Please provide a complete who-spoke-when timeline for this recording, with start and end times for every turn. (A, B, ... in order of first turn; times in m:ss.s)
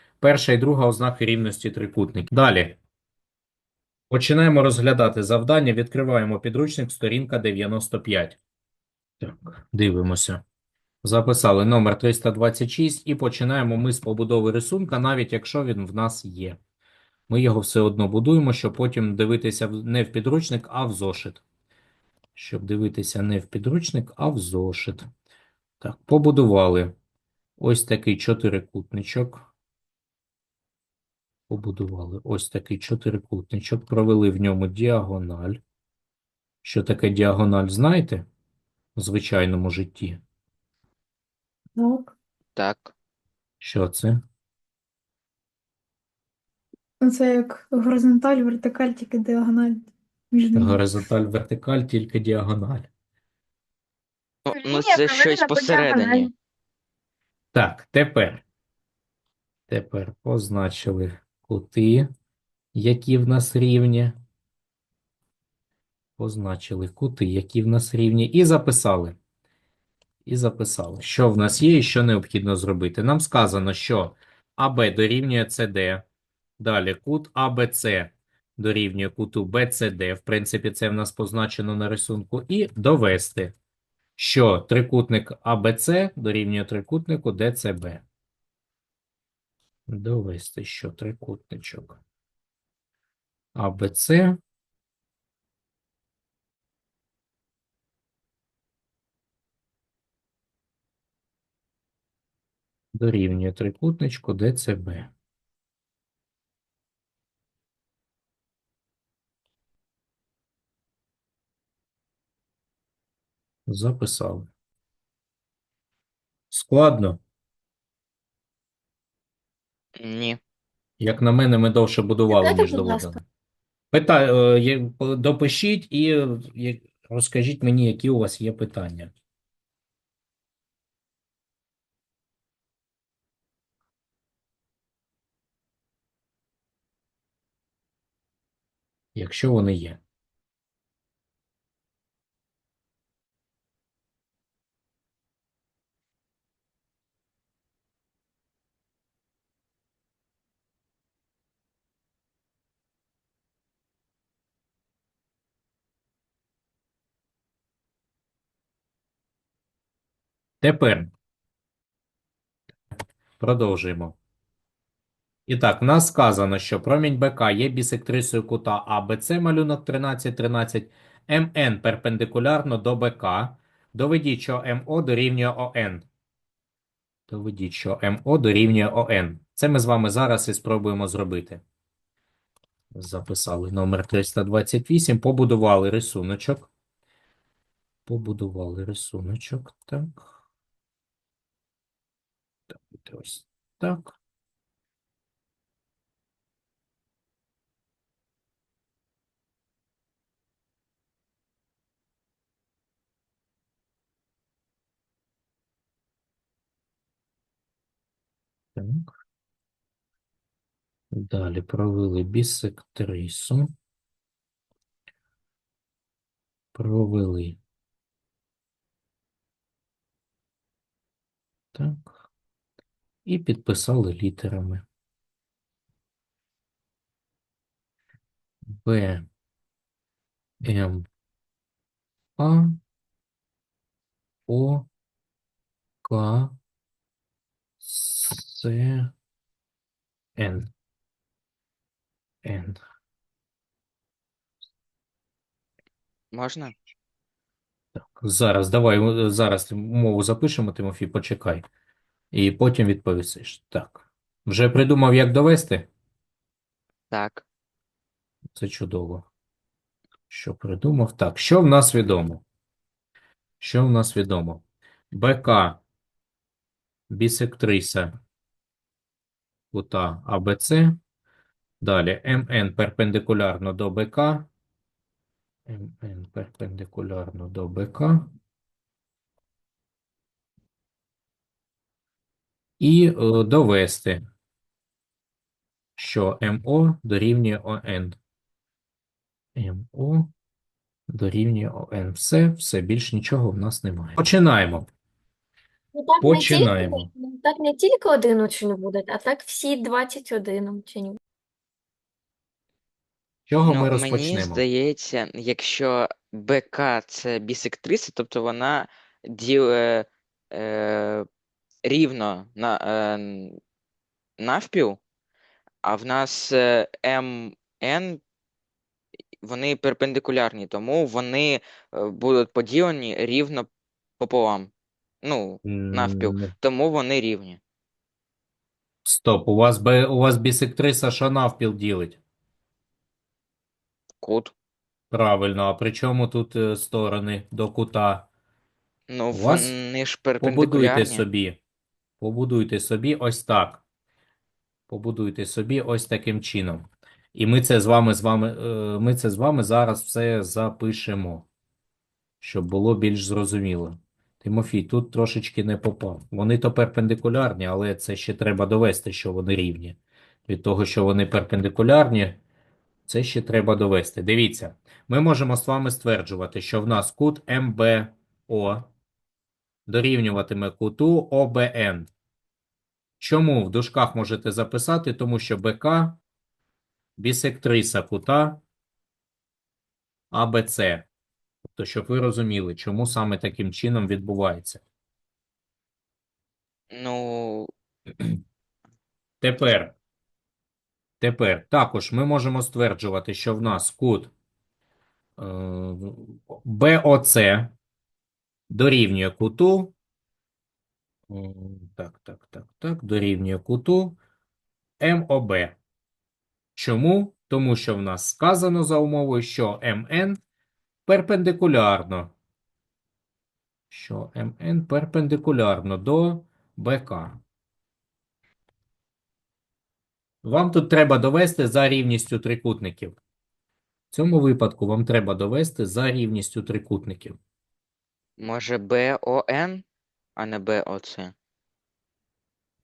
0:00.2-0:02.8 A
0:04.1-0:08.4 A
0:09.2-0:10.4 A
0:11.0-0:16.6 A
0:17.3-0:21.4 A
0:22.3-0:25.1 A
0:25.8-0:26.9 A
0:27.6-0:29.5 A
0:31.5-0:35.6 A
0:36.6-0:38.2 A
0:39.0-0:40.2 A
0:41.8-0:42.1 B
0:42.6-0:42.9 C
0:43.6-0:44.2 A
0:47.1-0:49.6 D
0:48.5-0:50.8 B
0:50.6-0:52.9 A
0:54.4-0:56.3 C
0:54.5-0:56.2 D
0:57.5-0:58.4 A
0:59.7-1:02.1 A
1:02.7-1:04.2 A
1:06.2-1:09.2 A
1:10.2-1:16.0 A
1:16.6-1:23.5 A
1:24.2-1:28.0 A
1:29.9-1:32.0 A
1:33.5-1:34.4 A
1:42.9-1:45.1 A
1:53.7-1:54.5 A
1:56.5-1:57.2 A
2:00.0-2:00.4 C
2:01.0-2:03.2 A
2:02.3-2:03.2 D
2:03.9-2:09.1 A
2:19.1-2:20.0 A
2:40.6-2:41.1 A
2:43.4-2:44.2 A
2:45.5-2:56.1 A
2:57.3-3:01.6 A
3:02.9-3:06.7 A
3:08.0-3:10.3 A
3:12.7-3:14.2 A
3:28.8-3:29.1 A
3:31.1-3:33.7 A
3:36.7-3:37.6 A
3:41.7-3:42.2 A
3:43.2-3:44.8 A
3:48.7-3:49.2 A
3:50.6-3:51.0 A
3:52.4-3:52.8 A
3:54.5-3:54.9 A
3:56.0-3:56.6 A
3:57.8-3:59.1 A
4:00.4-4:00.7 A
4:02.4-4:02.8 A
4:06.3-4:06.7 C
4:08.0-4:11.6 A
4:12.3-4:15.9 A
4:17.1-4:17.4 C
4:18.6-4:19.3 A
4:20.3-4:22.4 A
4:23.6-4:25.8 A
4:27.1-4:28.1 A
4:29.7-4:31.0 A
4:31.8-4:34.5 A
4:35.7-4:38.3 A
4:42.8-4:44.2 A
4:46.0-4:48.2 A
4:49.6-4:50.3 A
4:51.1-4:54.8 A
4:55.9-5:01.2 D
4:56.2-4:57.1 A
5:03.5-5:04.6 A
5:03.6-5:11.2 C
5:11.8-5:13.6 C
5:14.4-5:15.0 C
5:15.8-5:18.2 C
5:19.4-5:23.7 C
5:24.2-5:24.7 C
5:25.2-5:27.6 C
5:25.6-5:26.5 A
5:29.0-5:32.2 A
5:34.2-5:34.5 C
5:35.1-5:38.3 A
5:39.1-5:41.2 C
5:39.3-5:39.7 A
5:40.4-5:41.6 A
5:42.2-5:43.8 A
5:44.9-5:51.5 A
5:52.4-6:02.4 A
6:03.1-6:08.9 A
6:09.9-6:12.1 A
6:13.2-6:16.2 A
6:17.2-6:18.6 A
6:20.3-6:21.1 A
6:21.6-6:24.8 A
6:26.9-6:27.7 C
6:29.4-6:29.9 A
6:31.2-6:34.3 A
6:35.4-6:37.7 A
6:38.7-6:39.9 A
6:41.3-6:44.2 A
6:45.0-6:45.8 A
6:46.8-6:50.4 A
6:51.0-6:52.3 A
6:53.9-6:57.4 A
7:00.4-7:03.2 A
7:04.1-7:07.4 A
7:08.4-7:09.8 C
7:10.4-7:11.3 C